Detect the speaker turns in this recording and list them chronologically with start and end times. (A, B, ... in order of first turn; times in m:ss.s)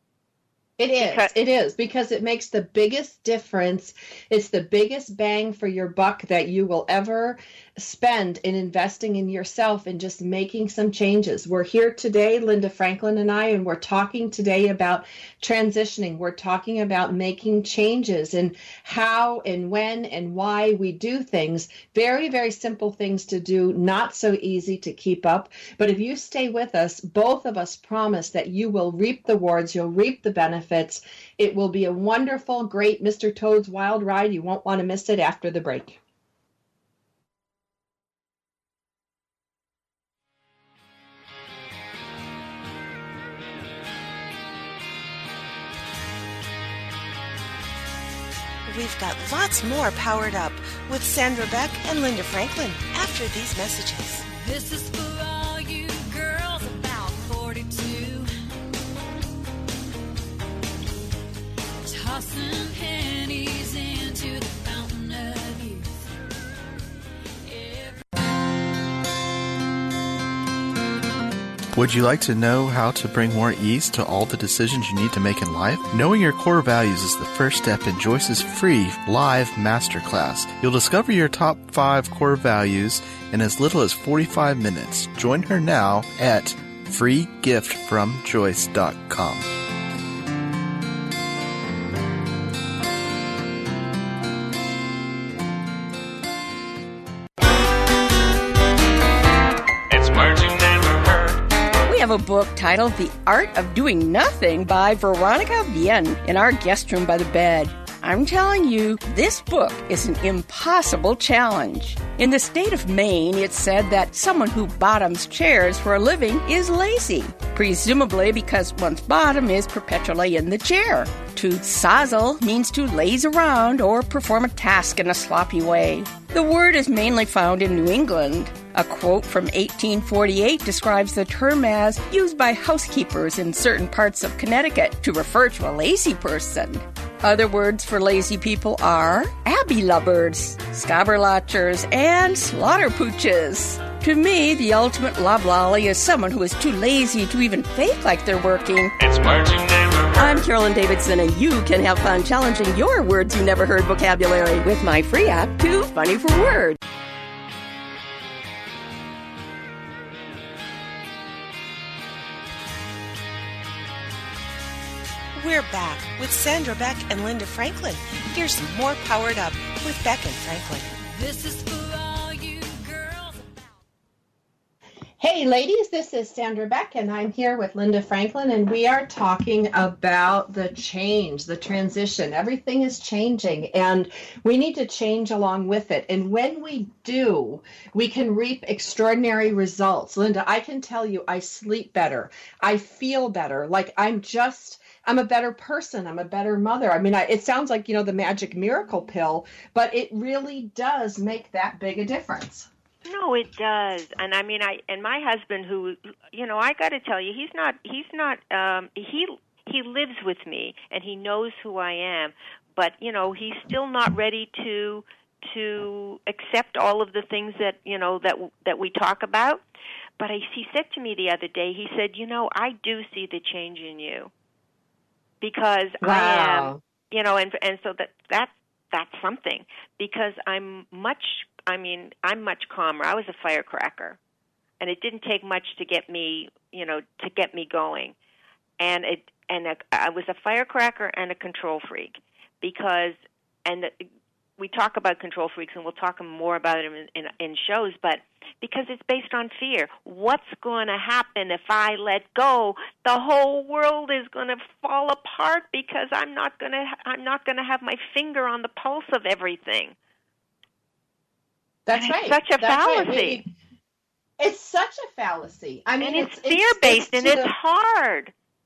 0:00.8-0:36.0 A
0:01.0-0:01.3 B
0:48.7-0:54.2 C
0:54.3-0:58.6 D
1:01.9-1:05.9 D
1:07.4-1:08.0 D
1:11.8-1:29.5 E
1:40.0-1:41.1 F
1:41.8-2:29.1 G
2:29.1-2:29.9 F
2:30.2-2:36.8 G
2:45.4-2:50.9 C
2:51.1-2:53.8 D
2:55.2-3:22.7 A
3:23.0-3:39.6 B
3:40.2-3:44.3 B
3:45.4-3:54.2 B
3:46.0-3:46.8 A
3:54.8-3:58.2 B
3:58.8-4:04.0 B
4:04.6-4:20.0 B
4:21.9-4:23.5 A
4:22.0-4:23.4 B
4:24.4-4:27.5 A
4:26.0-4:28.3 B